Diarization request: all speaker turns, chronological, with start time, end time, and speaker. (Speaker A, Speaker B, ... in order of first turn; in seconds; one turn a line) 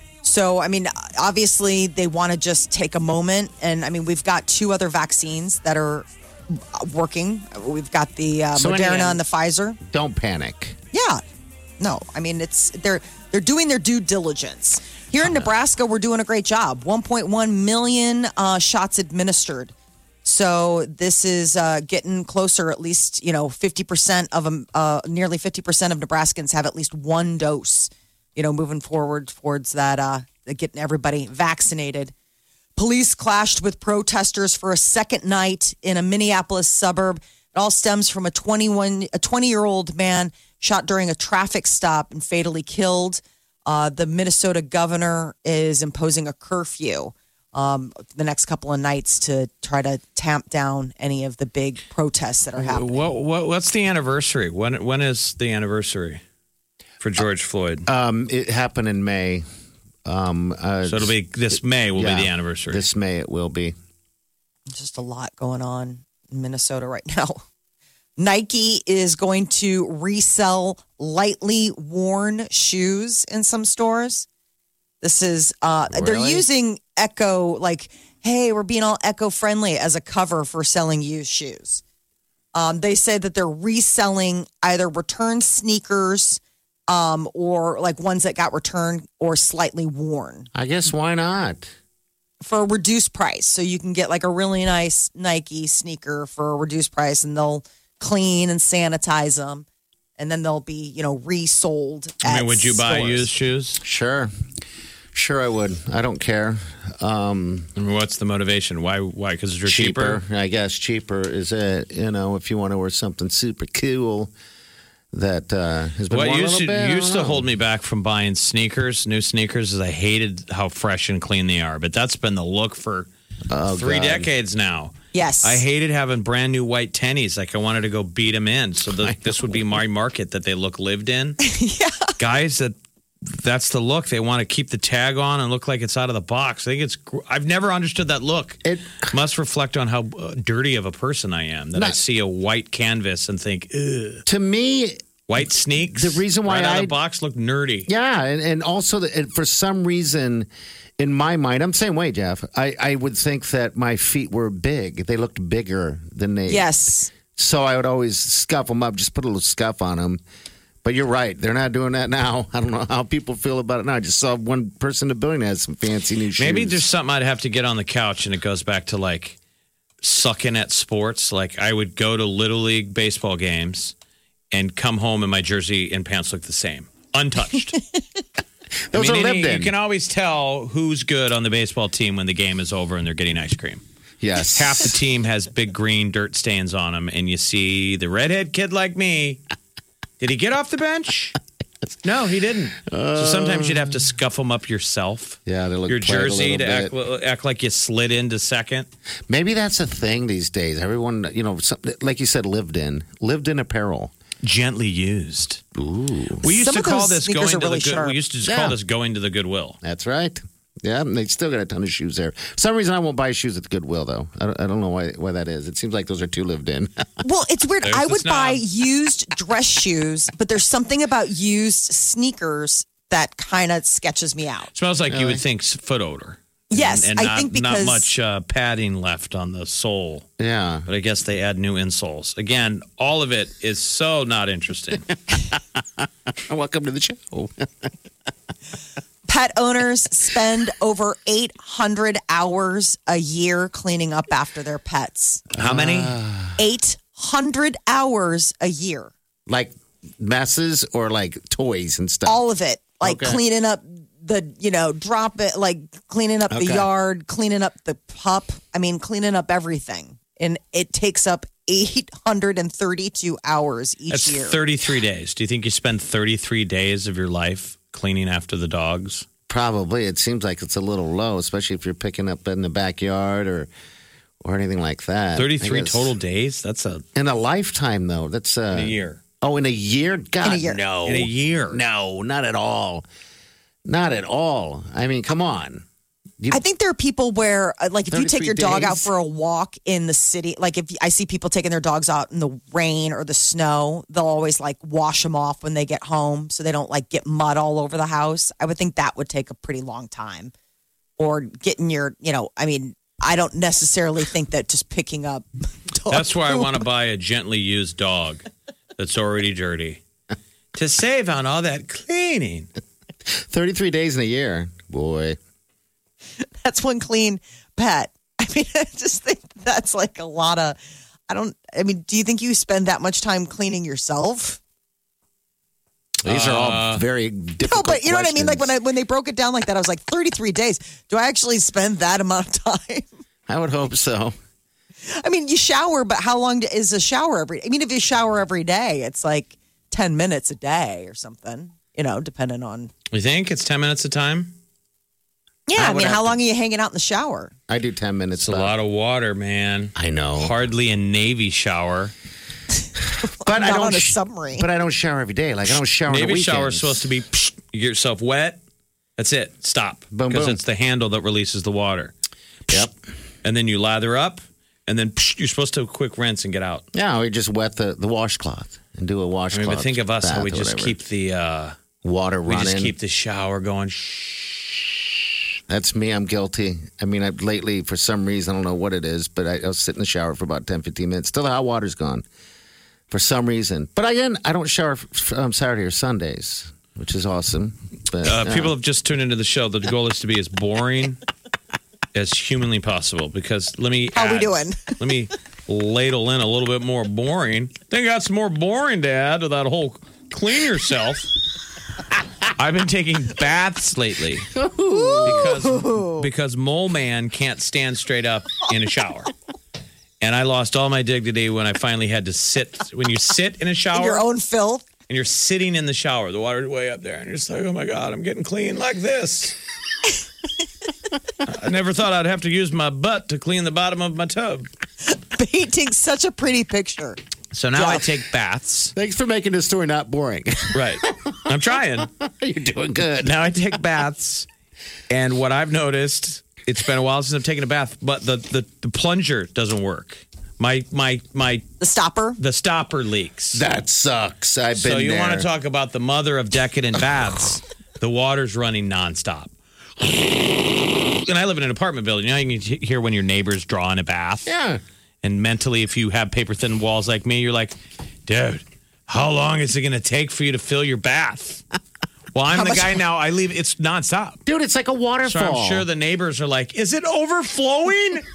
Speaker A: 0.2-9.8
Speaker B: 8.5-9.2
Speaker B: 9.8-10.8
Speaker A: 10.9-11.2
Speaker A: 11.8-19.7
Speaker B: 15.2-15.4
Speaker A: 20.2-32.1
Speaker A: 32.8-53.0
Speaker C: 52.5-56.2
Speaker C: 57.0-57.9
Speaker B: 57.9-59.4
Speaker B: 60.0-63.7
Speaker C: 60.9-62.9
Speaker A: 64.7-67.4
Speaker A: 68.2-74.2
Speaker A: 75.0-81.8
Speaker B: 75.9-76.5
Speaker A: 82.5-90.5
Speaker B: 90.5-91.7
Speaker A: 92.4-99.7
Speaker A: 100.2-103.3
Speaker C: 102.2-103.8
Speaker B: 103.8-104.3
Speaker B: 105.1-107.7
Speaker C: 107.8-110.2
Speaker B: 109.6-114.3
Speaker B: 115.1-117.5
Speaker C: 116.1-123.1
Speaker B: 123.5-124.3
Speaker C: 123.7-131.4
Speaker A: 125.1-125.6
Speaker B: 128.8-129.8
Speaker A: 131.4-132.1
Speaker C: 132.2-132.7
Speaker C: 133.2-144.2
Speaker B: 138.6-139.1
Speaker B: 144.2-146.9
Speaker C: 145.3-147.9
Speaker B: 147.9-150.5
Speaker B: 151.0-156.7
Speaker A: 156.5-157.1
Speaker B: 157.3-160.2
Speaker B: 160.8-166.8
Speaker C: 166.4-169.4
Speaker C: 170.0-173.9
Speaker C: 174.5-177.8
Speaker B: 178.9-179.7
Speaker C: 178.9-183.8
Speaker B: 184.2-184.9
Speaker C: 184.5-189.4
Speaker C: 190.2-191.3
Speaker C: 192.0-198.9
Speaker B: 192.9-194.0
Speaker B: 195.4-196.9
Speaker B: 199.3-204.1
Speaker C: 204.4-205.6
Speaker B: 205.7-206.4
Speaker C: 206.4-209.8
Speaker A: 206.4-208.2
Speaker B: 208.4-208.8
Speaker B: 209.8-217.1
Speaker A: 217.2-224.7
Speaker C: 217.8-218.6
Speaker C: 224.7-230.3
Speaker B: 225.1-225.4
Speaker A: 226.7-228.1
Speaker B: 230.4-230.8
Speaker C: 230.8-235.1
Speaker B: 235.5-237.9
Speaker A: 239.3-245.4
Speaker B: 245.5-246.6
Speaker C: 245.6-246.1
Speaker A: 246.6-249.1
Speaker B: 249.5-252.4
Speaker A: 252.2-264.6
Speaker B: 253.0-253.4
Speaker B: 256.5-256.9
Speaker C: 264.1-269.2
Speaker B: 269.5-273.7
Speaker B: 274.4-276.1
Speaker C: 275.4-277.0
Speaker B: 277.1-283.1
Speaker C: 278.7-279.2
Speaker A: 280.4-280.8
Speaker C: 281.0-281.8
Speaker B: 283.9-285.8
Speaker A: 286.5-300.5
Speaker B: 288.1-289.1
Speaker A: 301.2-306.8
Speaker C: 306.1-308.4
Speaker C: 309.0-310.0
Speaker C: 310.7-312.7
Speaker B: 313.4-315.4
Speaker A: 316.4-320.8
Speaker A: 321.3-324.6
Speaker B: 326.2-328.7
Speaker C: 326.2-327.0
Speaker A: 327.6-333.1
Speaker B: 333.5-334.3
Speaker A: 335.1-342.9
Speaker C: 343.1-344.5
Speaker A: 345.7-347.5
Speaker B: 345.8-346.3
Speaker B: 347.7-348.7
Speaker C: 348.4-352.1
Speaker B: 349.9-350.6
Speaker B: 353.4-357.1
Speaker A: 353.4-354.6
Speaker C: 356.1-358.6
Speaker C: 359.2-362.1
Speaker B: 360.1-360.6
Speaker C: 363.4-366.8
Speaker B: 366.9-370.9
Speaker C: 369.5-371.8
Speaker B: 372.0-372.9
Speaker C: 372.5-375.1
Speaker B: 375.7-382.2
Speaker B: 383.1-388.7
Speaker C: 388.2-391.2
Speaker C: 392.1-401.3
Speaker A: 394.1-394.9
Speaker C: 402.6-404.5
Speaker B: 404.5-405.6
Speaker A: 404.9-406.2
Speaker C: 405.2-409.3
Speaker C: 410.2-414.2
Speaker A: 413.9-414.8
Speaker C: 415.1-419.5
Speaker C: 421.4-424.7
Speaker A: 425.1-427.2
Speaker C: 427.5-428.9
Speaker A: 427.8-428.0
Speaker B: 428.9-433.4
Speaker C: 430.7-432.1
Speaker C: 433.2-434.5
Speaker C: 435.1-441.7
Speaker A: 441.8-442.4
Speaker C: 442.4-443.6
Speaker B: 443.5-445.5
Speaker C: 444.8-449.5
Speaker C: 450.0-454.5
Speaker B: 454.4-454.8
Speaker C: 455.2-457.7
Speaker C: 458.3-461.6
Speaker C: 462.3-464.4
Speaker A: 462.5-462.9
Speaker B: 464.4-465.9
Speaker C: 465.2-468.2